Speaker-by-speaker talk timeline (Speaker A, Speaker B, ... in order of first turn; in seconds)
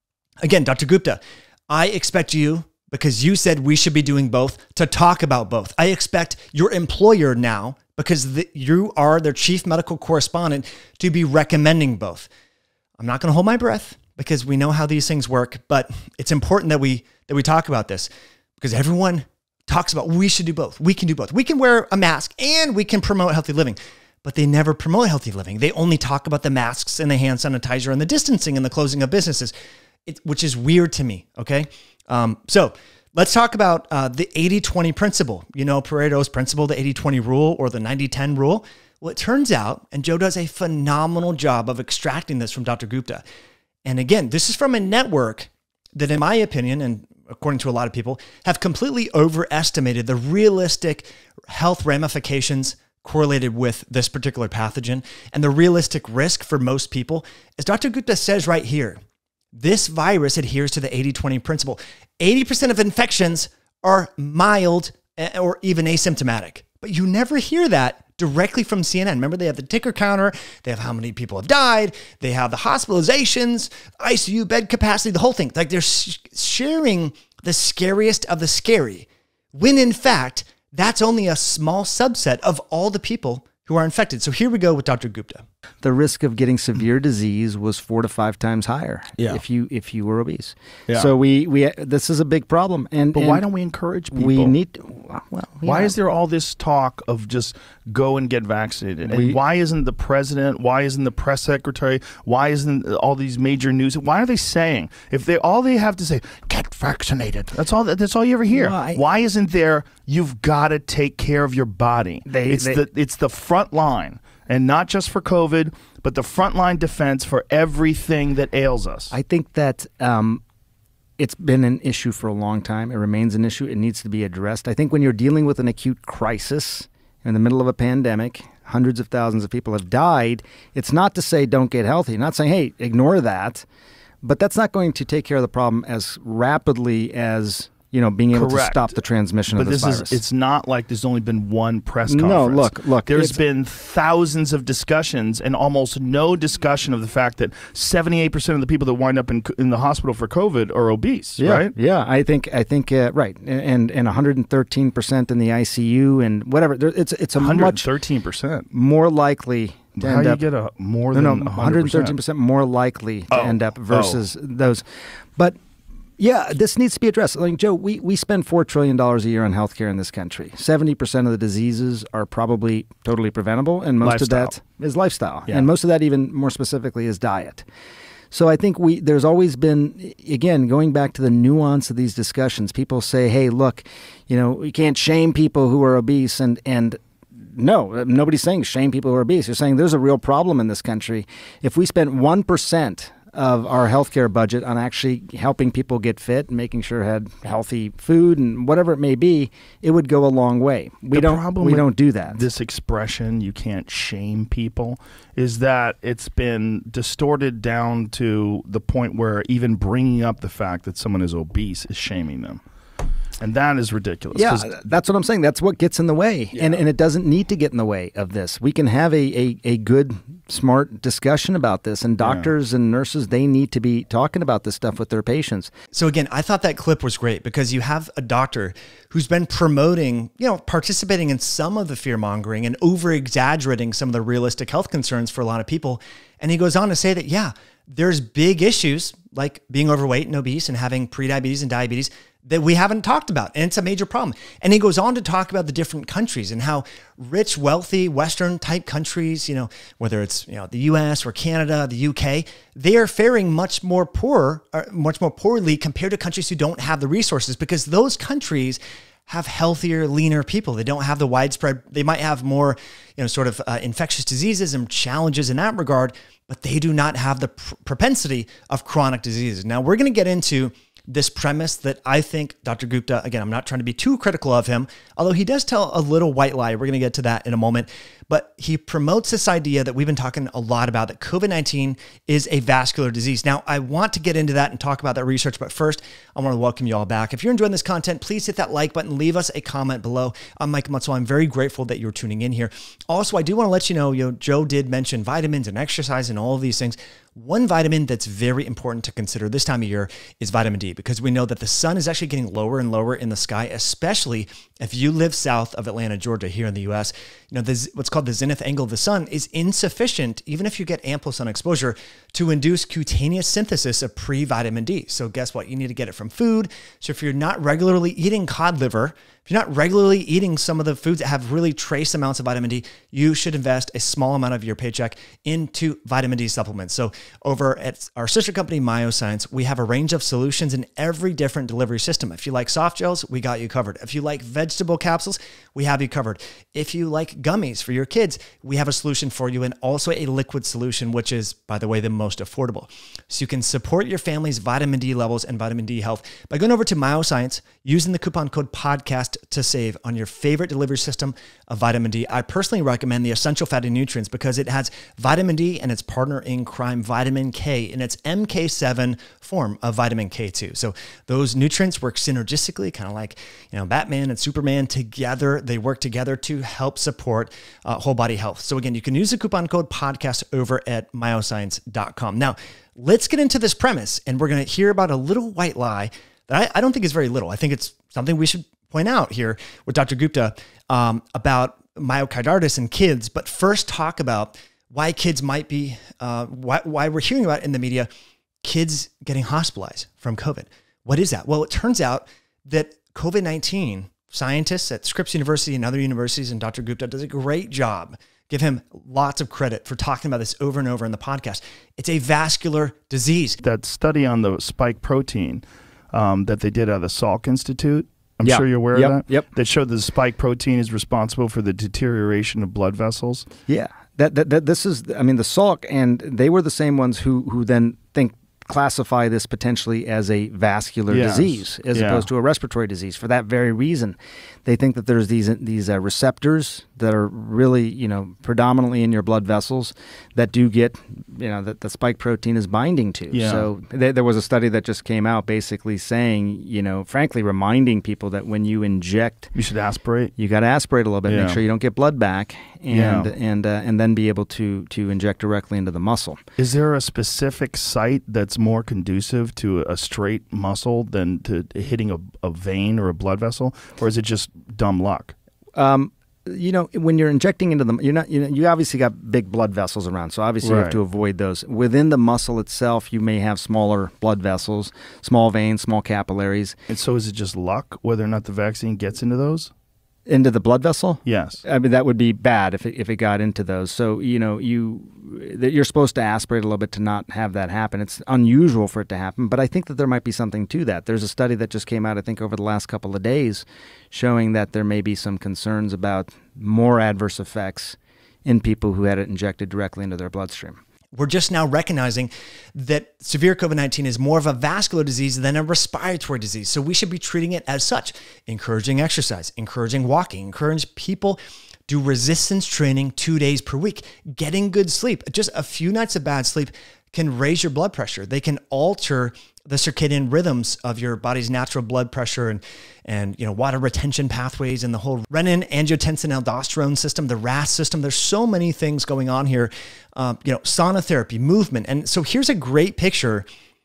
Speaker A: 0.4-12.3, 13.0-29.5, 30.1-43.2, 43.8-59.0, 59.5-85.4, 225.9-388.1, 388.6-403.6, 491.1-523.4
Speaker B: 85.8-93.4, 94.1-95.9, 99.1-99.4, 108.5-109.0, 112.3-112.8, 119.1-120.4, 121.2-133.6, 134.2-140.2, 142.1-143.4, 151.4-157.9, 158.7-160.4, 161.1-164.8, 166.2-177.7, 178.3-202.4, 214.3-225.7, 408.4-409.5, 413.7-439.5, 440.4-446.4, 455.8-466.8, 470.2-490.8
Speaker C: 93.1-94.5, 95.6-119.1, 138.3-138.9, 139.5-151.7, 157.4-158.7, 160.0-162.2, 163.3-164.2, 174.0-174.5, 201.1-212.6, 213.4-214.8, 216.6-216.8, 222.2-222.5, 403.6-413.5, 421.1-422.3, 433.3-433.7, 439.6-440.3, 441.3-441.6, 442.9-443.3, 446.6-455.3, 460.6-461.0, 466.9-469.7, 471.2-471.6